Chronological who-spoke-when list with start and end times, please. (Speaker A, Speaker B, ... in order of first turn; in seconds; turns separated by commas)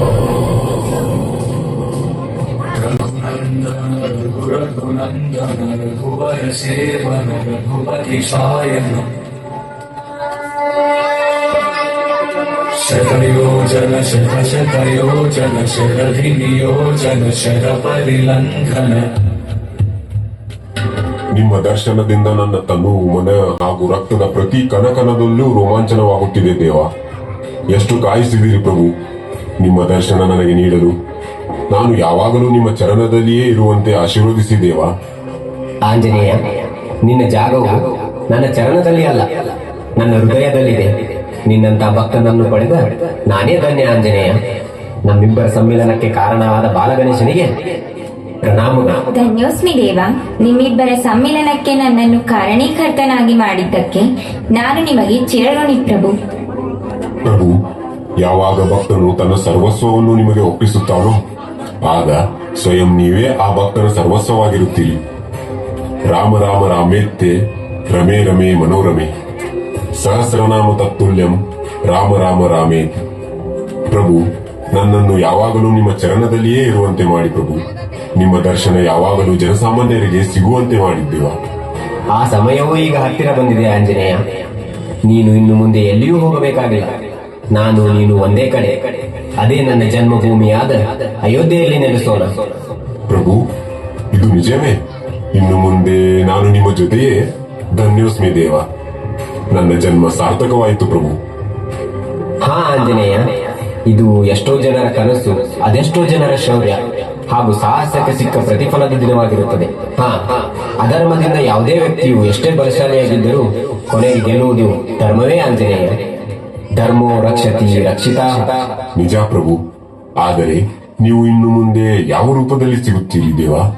Speaker A: 2.7-9.2, Speaker A: 12.8-19.1, Speaker B: 21.3-26.9, Speaker B: 27.7-28.9, Speaker B: 29.6-30.9, Speaker B: 31.7-34.9, Speaker C: 35.9-36.4, Speaker C: 37.0-39.3, Speaker C: 40.0-44.4, Speaker C: 45.0-47.5, Speaker C: 48.4-49.0, Speaker D: 49.1-56.1, Speaker B: 57.2-57.6, Speaker B: 58.2-61.2, Speaker B: 61.8-65.0, Speaker B: 66.0-69.1, Speaker B: 70.0-73.0, Speaker B: 73.9-77.6, Speaker B: 78.2-81.4, Speaker C: 82.1-84.2, Speaker C: 85.0-86.9, Speaker C: 87.5-92.3, Speaker B: 93.1-93.5, Speaker B: 94.1-94.8, Speaker B: 95.3-98.7, Speaker B: 99.5-101.2, Speaker C: 102.4-116.1, Speaker C: 116.8-118.6, Speaker B: 118.9-119.6, Speaker B: 120.2-123.7